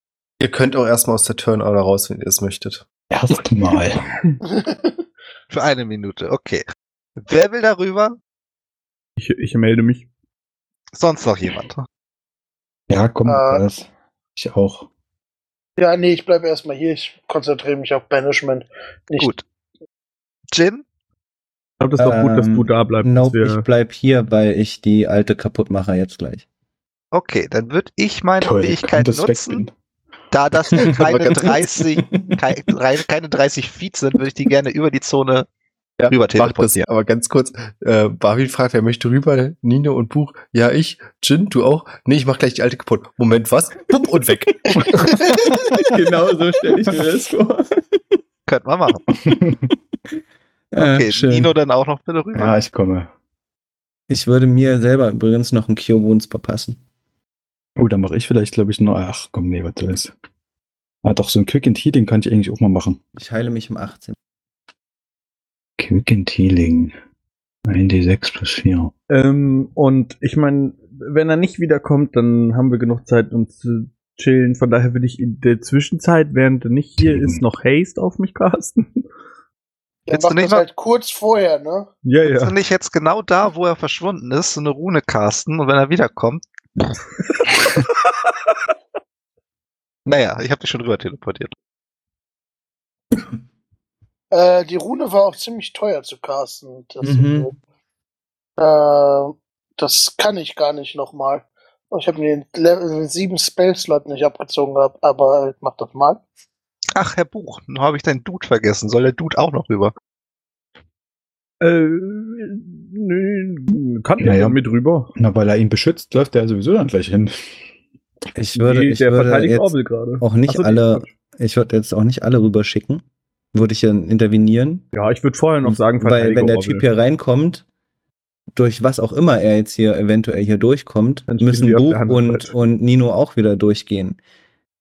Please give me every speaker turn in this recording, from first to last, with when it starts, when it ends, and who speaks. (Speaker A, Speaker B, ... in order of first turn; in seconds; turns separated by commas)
Speaker A: 0.4-2.9, Speaker B: 3.1-4.0, Speaker C: 4.4-5.0, Speaker D: 5.5-6.6, Speaker D: 7.2-8.2, Speaker E: 9.2-10.1, Speaker D: 10.9-11.8, Speaker B: 12.9-14.9, Speaker C: 13.2-13.6, Speaker C: 15.8-19.3, Speaker D: 19.2-19.4, Speaker D: 20.5-20.8, Speaker E: 21.8-23.6, Speaker F: 22.0-26.4, Speaker D: 27.1-29.6, Speaker B: 28.4-29.7, Speaker D: 30.3-35.5, Speaker A: 31.0-31.6, Speaker A: 36.0-45.5, Speaker D: 36.1-36.8, Speaker C: 44.7-45.5, Speaker B: 44.8-45.9, Speaker F: 45.8-47.6, Speaker D: 48.5-49.0, Speaker B: 49.1-49.7, Speaker F: 50.7-51.5, Speaker D: 50.8-52.6, Speaker B: 52.3-53.1, Speaker F: 54.1-56.8, Speaker B: 57.8-60.1, Speaker B: 61.0-63.0, Speaker F: 63.1-64.2, Speaker B: 65.8-66.9, Speaker B: 67.7-68.9, Speaker E: 69.1-79.0, Speaker B: 77.0-77.4, Speaker C: 80.1-81.9, Speaker D: 80.1-80.6, Speaker E: 82.0-82.5, Speaker D: 82.2-86.4, Speaker E: 87.4-88.1, Speaker D: 90.0-91.5, Speaker C: 94.3-97.5, Speaker F: 97.0-97.5, Speaker C: 98.6-106.2, Speaker D: 107.0-109.9, Speaker E: 111.6-115.1, Speaker B: 114.2-114.6, Speaker B: 115.1-117.4, Speaker F: 118.3-124.8, Speaker E: 118.5-121.1, Speaker E: 124.9-126.8, Speaker F: 125.6-127.6, Speaker F: 128.5-134.2, Speaker E: 131.3-132.5